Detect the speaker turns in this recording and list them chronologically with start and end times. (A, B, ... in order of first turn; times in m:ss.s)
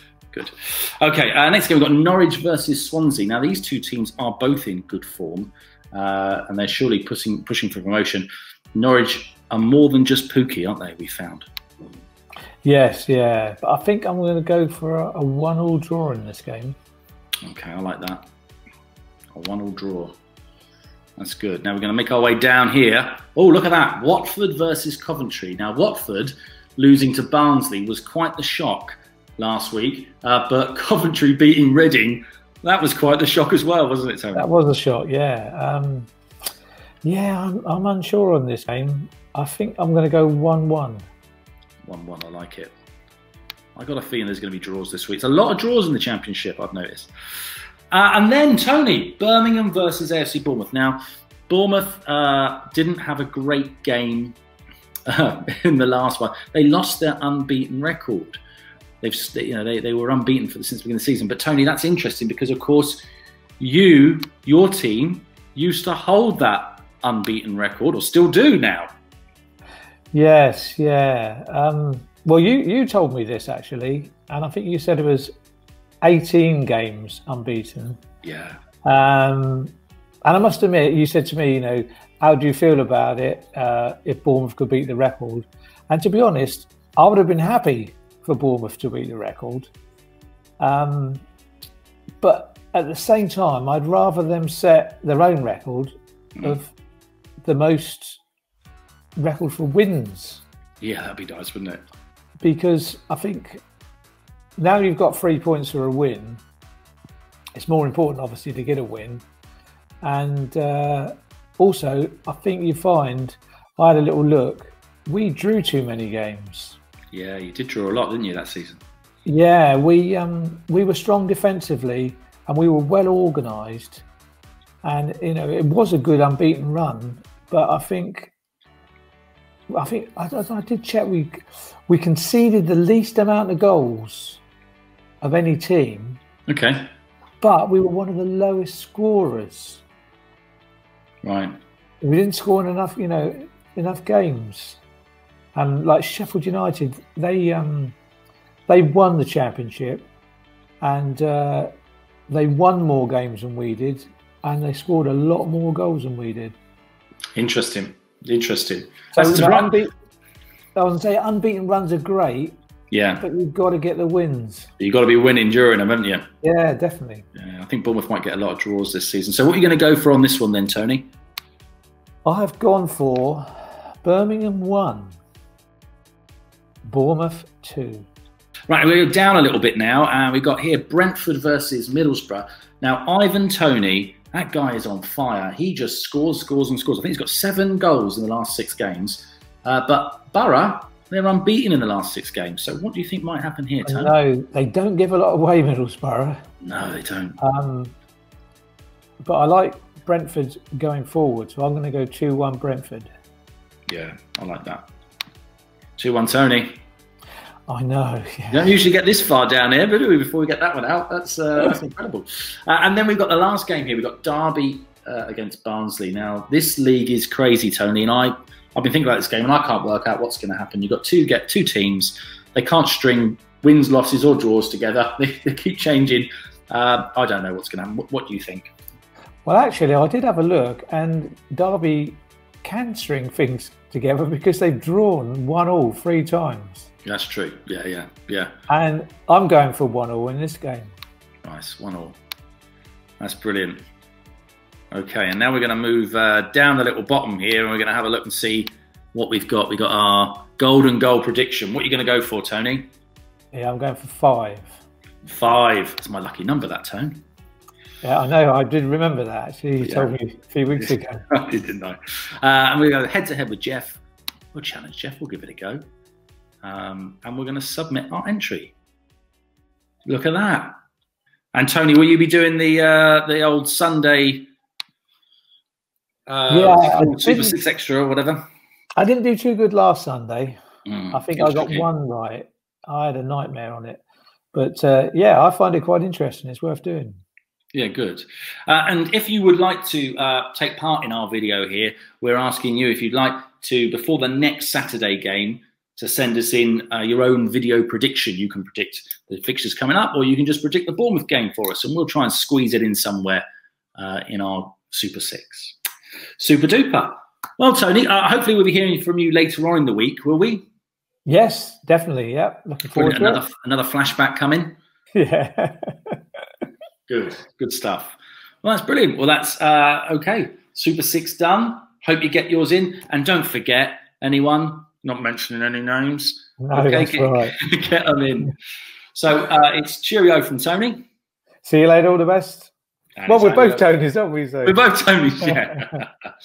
0:00.3-0:11.4 A
0:12.6-0:16.8 B
0:17.4-0:18.2 A
0:19.3-0:20.1 A
0:21.2-0:34.5 A
0:34.3-0:36.1 B
0:37.0-0:41.1 B
0:41.8-0:42.7 A
0:43.8-0:47.1 A
0:47.9-0:54.4 A
0:55.1-0:58.4 A
0:59.0-1:03.0 A
1:03.6-1:08.9 A
1:10.1-1:15.3 B
1:16.0-1:18.0 B
1:18.2-1:18.6 A
1:18.8-1:19.7 B
1:20.2-1:29.7 B
1:30.6-1:31.2 B
1:32.2-1:36.7 B
1:37.4-1:38.2 B
1:39.2-1:40.4 B
1:40.8-1:41.8 A
1:42.4-1:43.6 B
1:44.6-1:46.4 B
1:47.5-1:49.2 B
1:50.0-1:56.8 B
1:57.1-1:58.8 A
1:59.2-2:04.0 B
2:04.8-2:08.3 B
2:09.7-2:14.4 B
2:15.2-2:16.2 B
2:16.5-2:16.9 A
2:17.4-2:19.8 B
2:21.2-2:21.6 A
2:22.0-2:24.8 B
2:25.5-2:28.0 B
2:28.7-2:30.1 B
2:30.8-2:31.7 B
2:32.3-2:36.6 B
2:37.4-2:39.7 A
2:39.1-2:39.9 B
2:40.7-2:42.5 B
2:42.9-2:43.2 A
2:43.2-2:44.7 B
2:44.8-2:46.2 A
2:46.4-2:47.2 B
2:47.4-2:51.1 A
2:52.2-2:55.2 B
2:56.8-2:58.1 B
2:58.7-3:14.1 A
3:13.8-3:16.4 B
3:16.6-3:17.4 A
3:17.4-3:17.9 B
3:19.2-3:23.1 B
3:23.9-3:24.8 A
3:26.0-3:26.8 A
3:27.7-3:28.7 B
3:28.5-3:48.7 A
3:49.4-3:56.9 B
3:57.0-3:58.5 A
3:58.7-4:00.9 B
4:01.4-4:02.2 A
4:03.2-4:03.8 A
4:04.9-4:12.9 A
4:13.5-4:14.8 B
4:15.2-4:17.2 A
4:18.0-4:21.2 B
4:19.8-4:20.1 A
4:20.8-4:24.0 A
4:24.5-4:25.8 A
4:26.6-4:28.7 A
4:30.0-4:30.7 A
4:31.5-4:34.5 A
4:36.3-4:38.4 A
4:36.5-4:37.6 B
4:39.0-4:40.6 B
4:40.9-4:41.8 A
4:41.1-4:47.2 B
4:47.7-5:03.4 A
5:04.0-5:05.8 A
5:06.4-5:10.6 A
5:11.2-5:13.4 B
5:12.9-5:14.8 A
5:15.1-5:16.2 B
5:17.1-5:28.5 A
5:26.6-5:27.5 B
5:29.1-5:31.0 A
5:31.6-5:32.7 B
5:33.2-5:33.9 A
5:33.2-5:34.9 B
5:34.6-5:36.1 A
5:35.4-5:35.8 B